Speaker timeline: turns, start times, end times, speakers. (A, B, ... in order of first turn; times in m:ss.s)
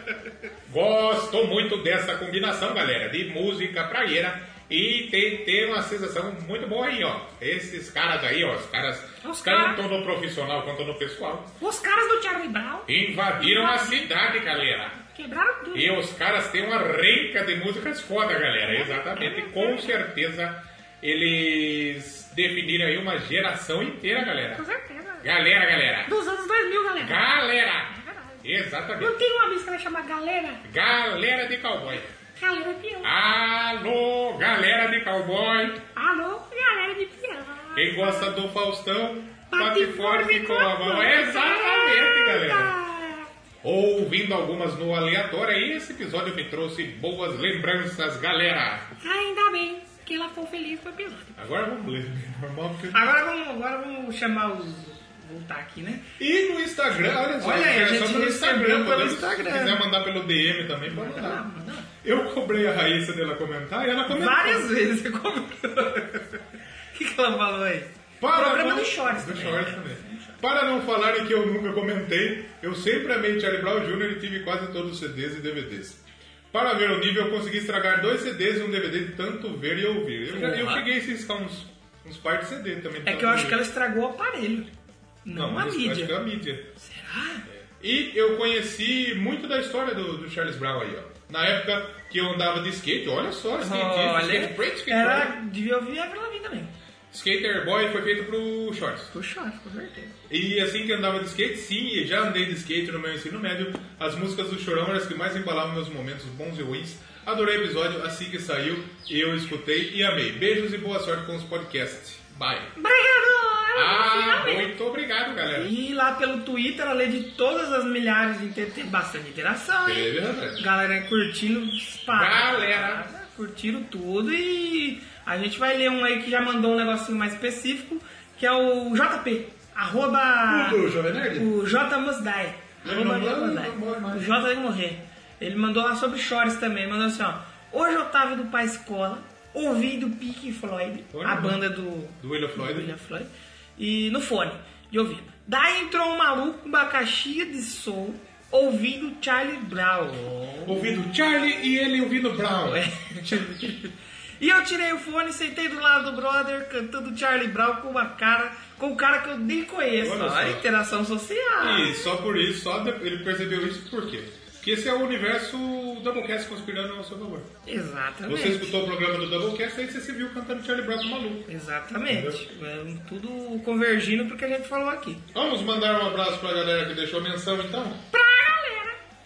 0:00.7-0:11.5 A
0:09.2-0:09.8 B
0:11.6-0:16.0 B
0:12.9-0:15.0 A
0:15.7-0:24.6 A
0:18.6-0:20.0 B
0:24.2-0:25.3 B
0:25.2-0:26.1 A
0:26.0-0:27.3 B
0:27.0-0:29.2 A
0:27.9-0:28.5 B
0:29.0-0:30.6 B
0:30.6-0:32.2 A
0:32.2-0:33.1 B
0:33.0-0:35.8 A
0:35.9-0:38.4 B
0:37.8-0:42.8 A
0:39.5-0:43.3 B
0:43.6-0:48.9 A
0:49.0-0:51.4 B
0:51.4-0:53.1 A
0:52.9-0:56.1 C
0:56.2-1:01.4 A
0:57.4-0:59.8 C
1:00.9-1:01.9 C
1:02.0-1:04.7 A
1:04.1-1:06.4 C
1:06.9-1:10.4 C
1:08.2-1:23.6 A
1:20.3-1:20.9 C
1:23.0-1:24.7 C
1:25.2-1:26.2 C
1:25.3-1:26.7 A
1:26.8-1:27.5 C
1:27.5-1:35.3 A
1:33.6-1:36.7 C
1:37.1-1:39.1 A
1:39.1-1:40.2 C
1:40.3-1:52.7 A
1:52.8-1:54.7 B
1:53.7-1:55.7 A
1:55.6-2:31.0 C
1:59.8-2:00.6 A
2:02.1-2:03.0 A
2:10.5-2:11.5 A
2:12.8-2:14.3 A
2:21.1-2:21.6 A
2:22.2-2:22.9 A
2:30.6-2:33.5 A
2:32.7-2:42.1 C
2:40.0-2:40.6 A
2:41.6-2:47.5 A
2:47.7-2:48.8 C
2:48.3-2:51.5 A
2:51.5-2:55.2 C
2:52.1-2:52.4 A
2:55.3-2:58.0 A
2:58.1-2:59.0 B